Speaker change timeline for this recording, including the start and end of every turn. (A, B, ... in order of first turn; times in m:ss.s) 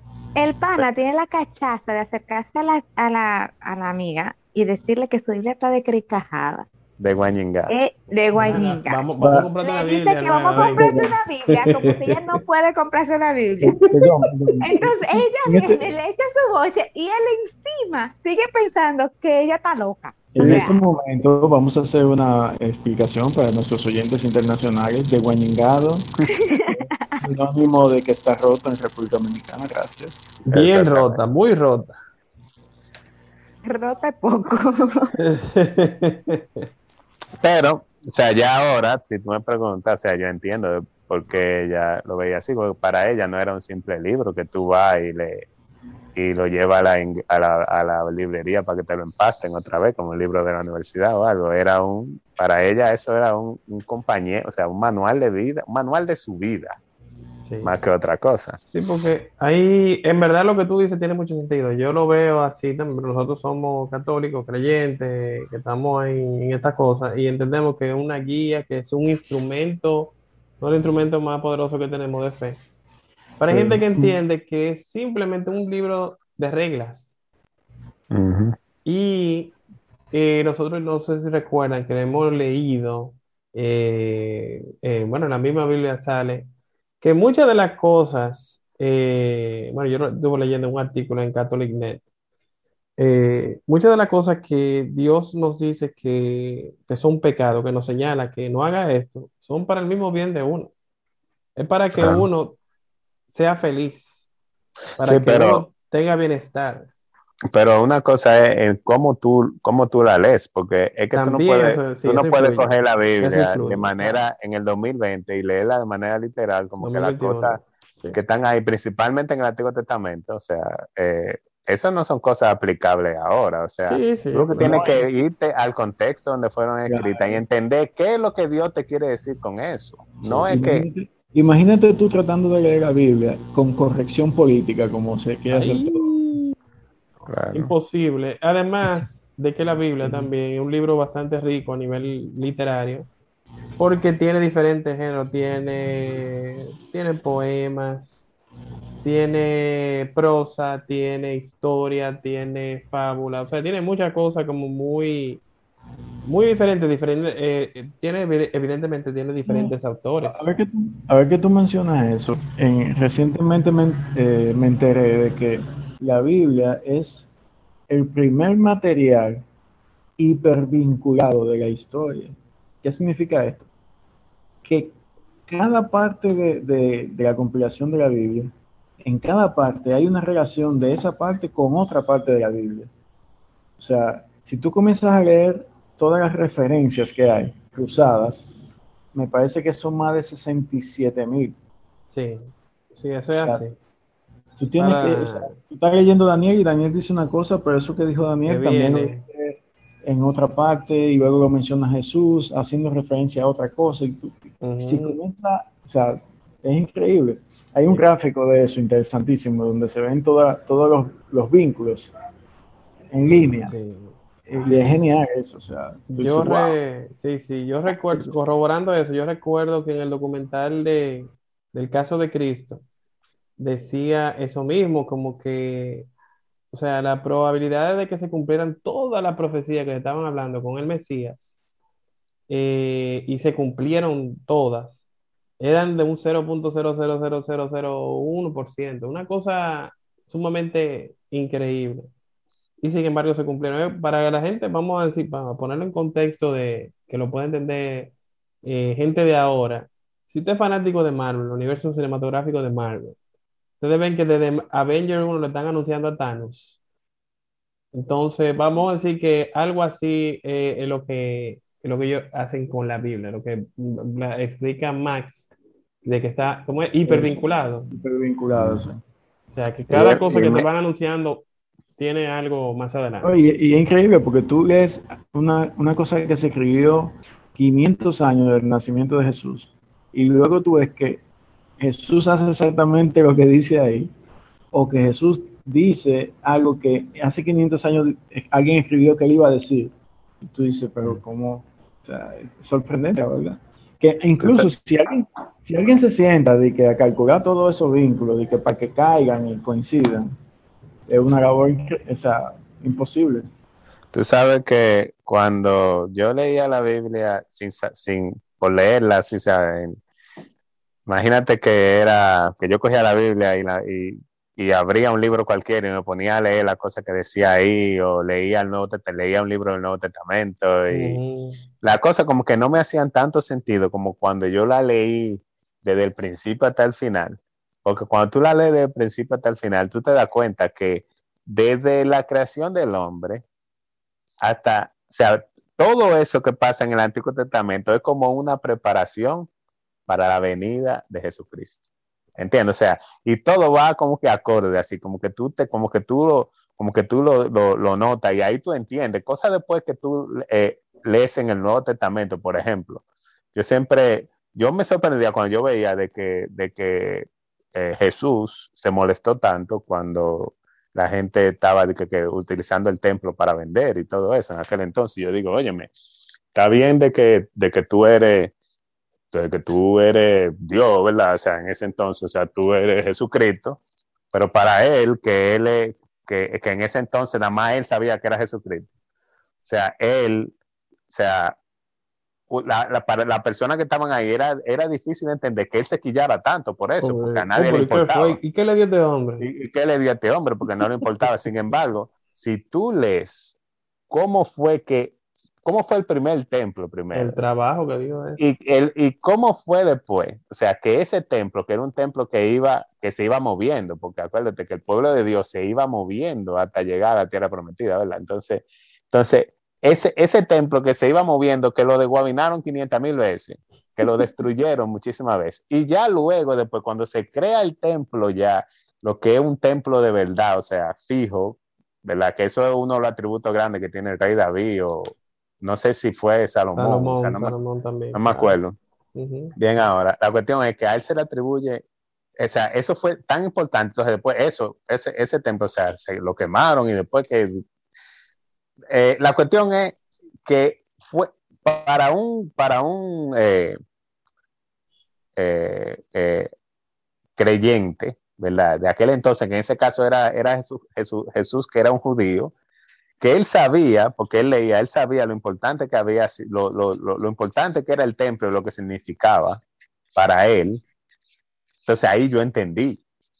0:00.4-0:06.6 A
0:07.0-0:07.7 B
0:07.7-0:09.0 A
0:08.4-0:11.0 C
0:09.2-0:09.5 D
0:09.6-0:13.8 A
0:10.6-0:11.1 D
0:11.5-0:12.4 C
0:13.6-0:15.8 D
0:14.6-0:20.8 A
0:20.3-0:26.1 D
0:20.4-0:20.6 C
0:26.3-0:27.2 A
0:27.2-0:30.2 D
0:30.4-0:32.0 C
0:30.5-0:31.2 B
0:33.6-0:35.1 A
0:35.2-0:36.6 C
0:37.4-0:45.4 B
0:46.1-0:56.8 B
0:57.4-0:57.7 C
0:57.6-0:58.6 B
0:58.7-1:12.6 C
1:13.4-1:17.2 C
1:13.5-1:14.2 D
1:18.1-1:18.6 B
1:18.8-1:19.6 C
1:20.1-1:26.5 C
1:27.0-1:32.0 C
1:33.0-1:40.7 C
1:41.6-1:42.6 C
1:41.9-1:42.3 B
1:43.3-1:44.3 C
1:45.0-1:46.9 C
1:45.0-1:45.6 B
1:47.5-1:57.6 B
1:51.1-1:54.2 C
1:56.8-1:58.2 C
1:58.1-2:10.8 B
2:03.9-2:04.8 C
2:04.6-2:05.0 D
2:06.9-2:07.4 D
2:10.2-2:16.1 D
2:15.5-2:16.5 C
2:17.3-2:17.7 B
2:17.5-2:23.1 C
2:20.0-2:20.3 D
2:23.8-2:28.3 C
2:29.0-2:35.4 C
2:36.2-2:40.6 C
2:39.4-2:39.7 D
2:40.2-2:47.3 D
2:47.9-2:49.4 D
2:50.2-2:53.7 D
2:54.6-2:55.0 D
2:55.5-2:58.5 D
2:59.0-3:02.9 D
3:03.8-3:08.5 D
3:09.1-3:11.6 D
3:12.1-3:13.8 C
3:13.3-3:13.6 D
3:14.6-3:32.1 D
3:14.8-3:15.6 C
3:18.4-3:19.2 C
3:24.6-3:25.2 C
3:33.1-3:33.8 D
3:33.6-3:34.9 C
3:34.5-3:36.8 D
3:36.1-3:42.8 C
3:37.9-3:38.3 D
3:43.6-3:46.1 C
3:46.7-3:51.6 C
3:52.5-3:55.0 C
3:55.6-4:02.1 C
4:02.8-4:13.2 C
4:13.8-4:16.8 C
4:17.9-4:25.5 C
4:26.0-4:27.9 C
4:27.0-4:29.0 D
4:28.6-4:28.8 B
4:29.5-4:31.4 C
4:29.9-4:30.6 B
4:32.0-4:33.3 C
4:33.2-4:41.2 D
4:41.8-4:44.1 D
4:44.7-5:00.3 D
4:54.4-4:54.7 B
5:01.1-5:03.5 D
5:04.1-5:10.0 B
5:11.1-5:21.2 B
5:20.9-5:21.6 C
5:21.8-5:33.4 B
5:34.4-5:39.5 B
5:40.1-5:41.8 B
5:42.4-5:53.0 B
5:53.5-6:05.9 B
6:06.5-6:08.5 B
6:09.3-6:13.8 B
6:14.3-6:18.9 B
6:19.6-6:20.5 B
6:21.1-6:21.6 B
6:22.5-6:28.4 B
6:27.0-6:29.5 C
6:29.4-6:33.6 B
6:34.1-6:37.4 B
6:37.1-6:38.4 C
6:38.4-7:07.5 B
7:06.7-7:08.6 C
7:08.1-7:08.8 B
7:09.1-7:09.5 C
7:09.6-7:11.8 B
7:12.4-7:17.6 B
7:18.9-7:23.8 B
7:25.4-7:26.5 B
7:27.4-7:32.5 B
7:33.2-7:39.6 B
7:40.1-7:40.8 B
7:41.8-7:43.0 B